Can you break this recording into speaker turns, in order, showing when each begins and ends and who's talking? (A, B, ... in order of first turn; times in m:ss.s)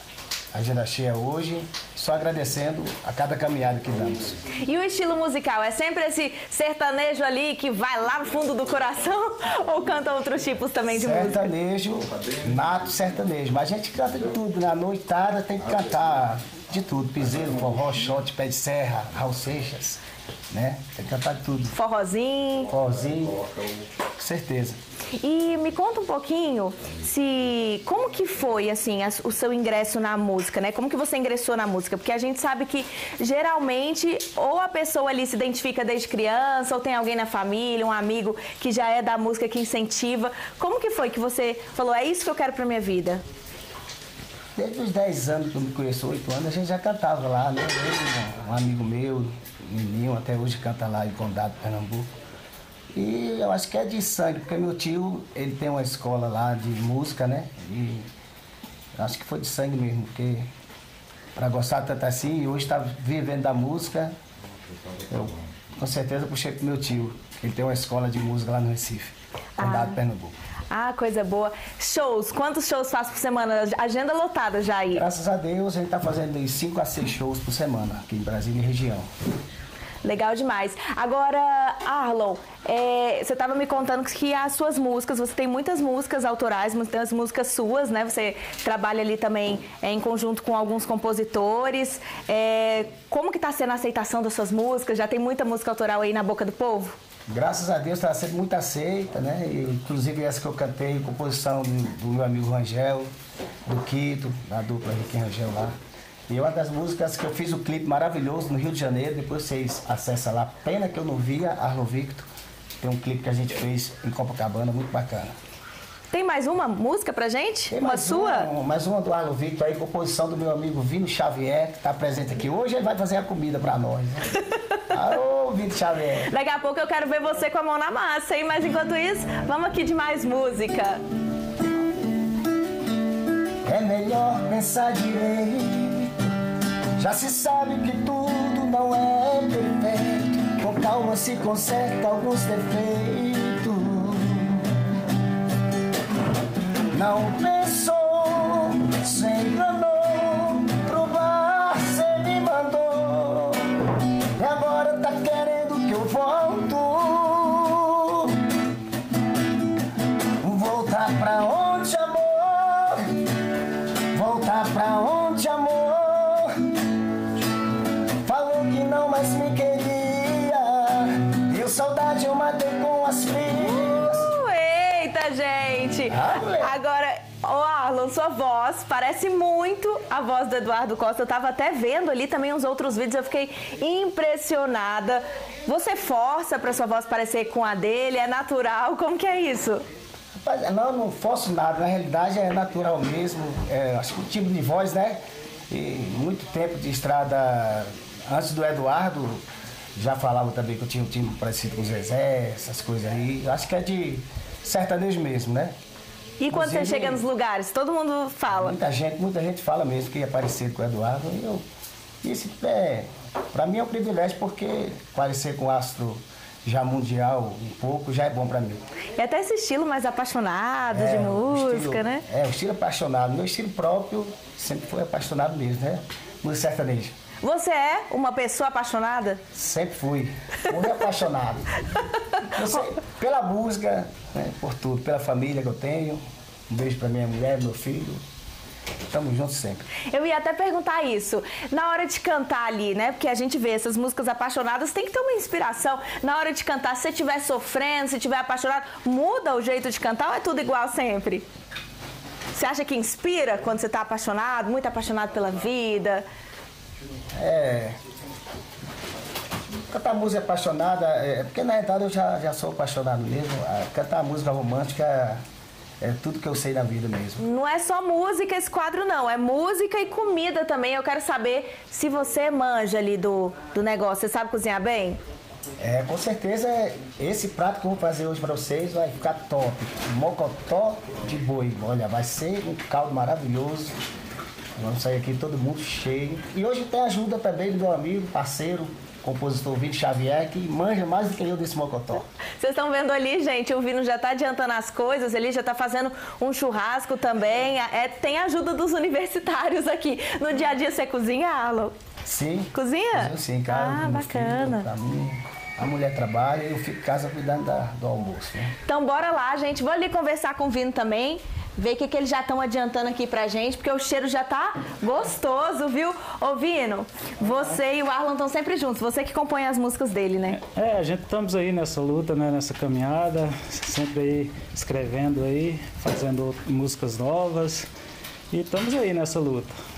0:00.5-0:04.4 A
0:04.6-0:11.5 B
0:10.9-0:21.7 A
0:21.7-0:22.7 B
0:22.7-0:23.4 A
0:24.2-0:24.8 A
0:25.2-0:43.2 B
0:44.6-0:52.1 A
0:52.9-0:58.1 A
0:59.0-1:00.5 A
1:01.4-1:04.2 A
1:05.1-1:10.4 A
1:09.6-1:10.0 B
1:10.7-1:15.0 B
1:14.9-1:19.1 A
1:20.0-1:37.0 B
1:37.3-1:43.1 A
1:43.7-1:45.8 A
1:46.3-1:52.3 A
1:52.8-1:55.4 A
1:56.1-1:58.5 B
1:57.7-2:04.3 A
2:04.9-2:06.3 A
2:06.3-2:11.0 B
2:13.6-2:16.1 A
2:17.0-2:24.7 A
2:26.9-2:33.7 A
2:34.4-2:38.4 A
2:40.4-2:43.0 A
2:44.1-2:46.5 A
2:48.2-2:54.3 A
2:53.6-3:09.8 B
2:56.1-2:56.8 A
3:10.4-3:19.4 A
3:20.0-3:25.8 A
3:26.4-3:28.8 B
3:26.5-3:27.2 A
3:28.5-3:31.6 A
3:32.2-3:38.8 A
3:39.2-3:42.2 B
3:40.9-3:47.2 A
3:47.4-3:49.4 B
3:49.5-3:51.8 A
3:52.5-3:58.2 A
3:59.1-3:59.9 A
4:00.1-4:11.5 B
4:12.6-4:16.2 B
4:17.4-4:18.0 A
4:19.9-4:25.4 A
4:26.0-4:27.4 A
4:27.4-4:35.2 B
4:35.8-4:44.0 A
4:44.8-4:52.2 A
4:52.2-5:02.0 B
5:02.2-5:08.7 A
5:02.7-5:04.9 B
5:08.8-5:20.6 B
5:20.5-5:27.9 C
5:28.5-5:29.8 C